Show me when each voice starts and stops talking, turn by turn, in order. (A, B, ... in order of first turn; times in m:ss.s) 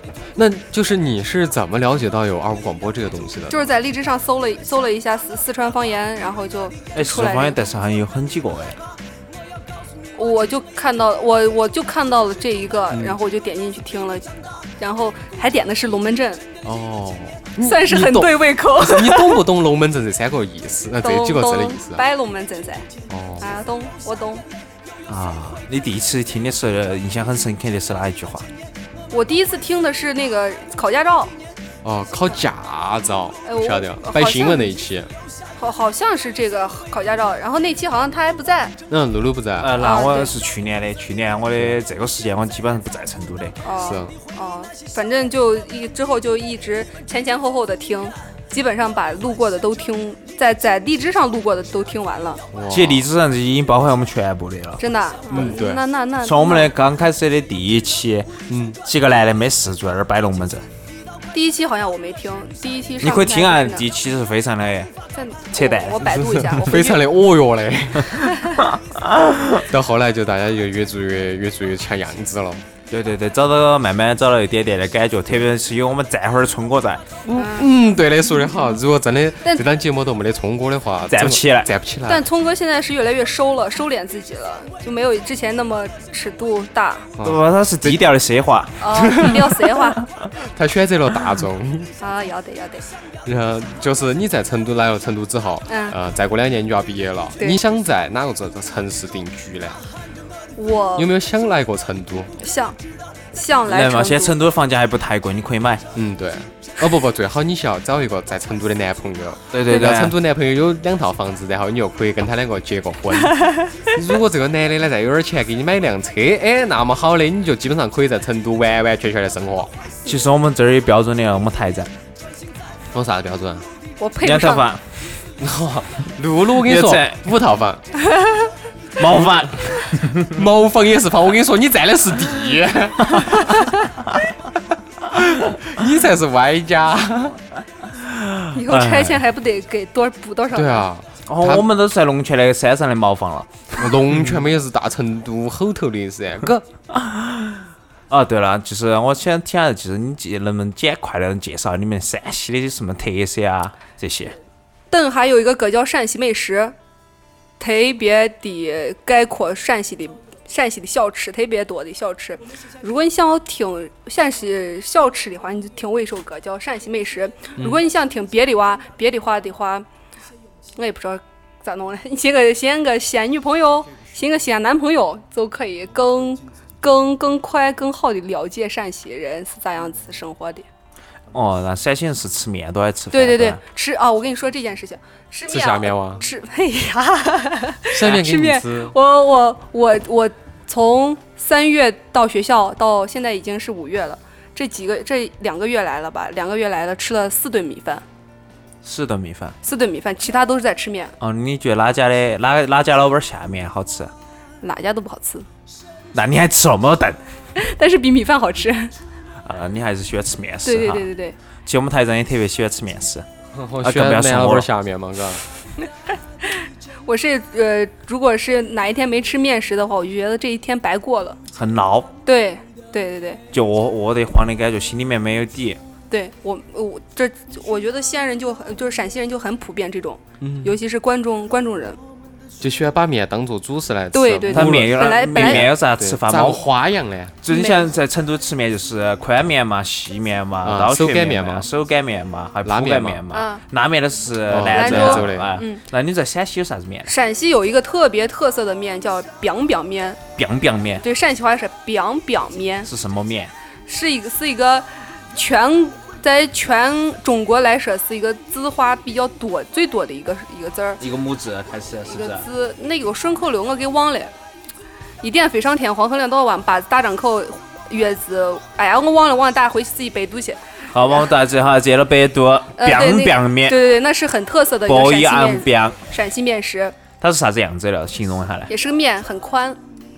0:00.4-0:03.7 A
0:03.5-0:07.6 B
0:07.0-0:08.8 C
0:10.2-0:14.3 B
0:12.9-0:13.2 A
0:14.8-0:16.4 B
0:16.6-0:22.0 A
0:17.6-0:19.4 B
0:21.0-0:22.9 B
0:23.1-0:23.6 A
0:23.4-0:24.4 B
0:25.1-0:28.5 C
0:29.1-0:31.3 B
0:31.8-0:35.1 A
0:33.4-0:34.8 B
0:35.6-0:38.8 B
0:38.9-0:39.8 A
0:39.6-0:43.6 C
0:39.8-0:40.3 B
0:43.6-0:52.4 B
0:43.8-0:44.1 A
0:52.5-0:53.1 A
0:52.7-0:54.8 C
0:54.8-0:56.7 B
0:55.3-0:55.8 A
0:56.2-0:58.3 C
0:58.5-0:58.8 A
0:58.8-1:00.6 C
1:01.3-1:03.8 B
1:03.0-1:04.9 C
1:05.1-1:07.0 B
1:05.5-1:06.6 C
1:06.6-1:08.3 A
1:08.3-1:08.6 B
1:08.7-1:09.6 C
1:09.6-1:12.6 A
1:12.9-1:17.0 C
1:17.3-1:22.3 A
1:17.3-1:17.7 B
1:21.1-1:21.7 C
1:22.1-1:27.1 B
1:27.2-1:28.0 A
1:27.2-1:29.4 C
1:28.8-1:30.0 B
1:28.9-1:29.5 A
1:30.4-1:31.9 A
1:32.0-1:32.9 B
1:33.2-1:39.8 A
1:35.7-1:36.0 B
1:40.6-1:41.1 B
1:41.0-1:42.3 A
1:42.4-1:42.8 B
1:43.3-1:44.4 B
1:43.7-1:45.8 C
1:46.0-1:59.7 A
1:49.5-1:50.2 C
2:00.1-2:01.9 C
2:02.9-2:03.7 A
2:04.0-2:04.7 B
2:04.2-2:05.2 C
2:05.4-2:07.8 A
2:06.6-2:07.2 C
2:08.1-2:08.4 B
2:09.0-2:10.3 C
2:10.2-2:13.7 A
2:15.1-2:17.4 A
2:18.0-2:19.2 C
2:18.5-2:20.9 B
2:20.5-2:21.7 A
2:21.3-2:24.2 C
2:23.8-2:26.7 A
2:26.9-2:34.4 C
2:34.9-2:36.8 B
2:37.6-2:49.8 B
2:50.8-3:00.7 B
3:01.3-3:03.6 C
3:03.1-3:18.0 B
3:05.5-3:06.2 A
3:07.9-3:08.9 A
3:18.8-3:19.6 C
3:19.6-3:21.2 B
3:21.2-3:24.1 C
3:24.6-3:25.5 B
3:26.1-3:27.2 C
3:27.6-3:28.9 B
3:29.4-3:31.1 C
3:30.6-3:31.4 B
3:31.7-3:33.2 C
3:33.5-3:35.4 A
3:33.8-3:34.7 C
3:37.1-3:41.4 B
3:41.5-3:42.1 C
3:42.2-3:43.4 B
3:43.5-3:45.8 C
3:46.1-3:52.0 B
3:50.4-3:50.7 A
3:52.6-3:57.4 A
3:54.1-3:55.7 B
3:54.5-3:56.6 C
3:57.4-4:07.1 C
3:57.5-3:57.9 B
4:00.6-4:01.7 A
4:02.6-4:03.2 A
4:03.3-4:03.6 B
4:04.5-4:05.5 A
4:04.7-4:05.8 B
4:07.1-4:10.2 B
4:10.4-4:11.0 C
4:11.0-4:12.9 B
4:12.9-4:13.5 C
4:13.9-4:21.0 B
4:21.0-4:22.4 C
4:22.1-4:24.3 B
4:25.2-4:31.2 B
4:30.9-4:33.9 C
4:32.8-4:37.0 B
4:34.9-4:36.0 C
4:37.2-4:38.7 C
4:38.7-4:39.8 B